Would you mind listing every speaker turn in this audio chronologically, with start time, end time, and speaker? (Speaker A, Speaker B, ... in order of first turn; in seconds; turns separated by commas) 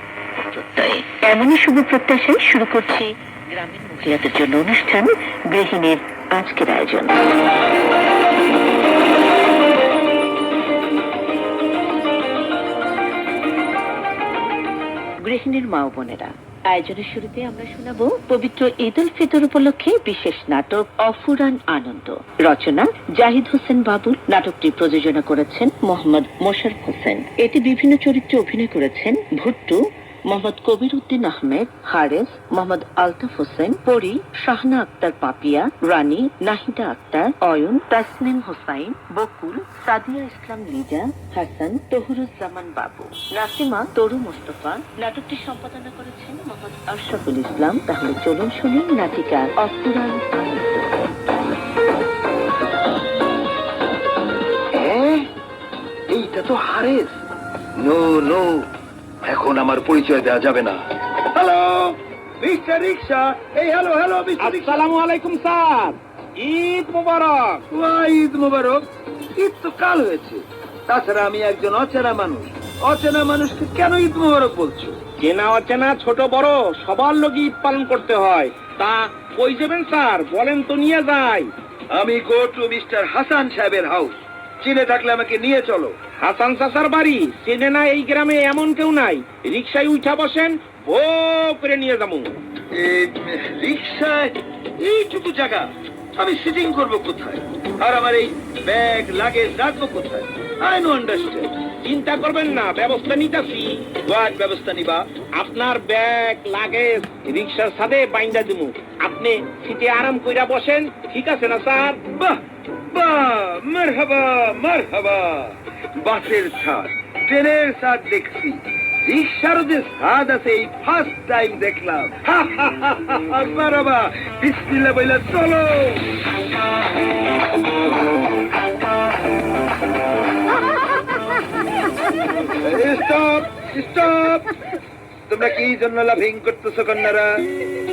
Speaker A: 0.7-7.2, Speaker A: 15.2-50.9, Speaker B: 54.7-55.3, Speaker B: 56.1-57.1, Speaker B: 57.8-58.7, Speaker B: 59.2-64.8, Speaker C: 64.4-67.6, Speaker B: 67.7-68.8, Speaker B: 69.3-75.0, Speaker C: 75.2-81.5, Speaker B: 81.9-86.0, Speaker C: 86.2-92.3, Speaker B: 92.7-101.5, Speaker C: 101.8-104.1, Speaker B: 104.1-105.1, Speaker C: 105.3-112.0, Speaker B: 112.1-126.1, Speaker B: 132.5-134.5, Speaker B: 135.3-137.4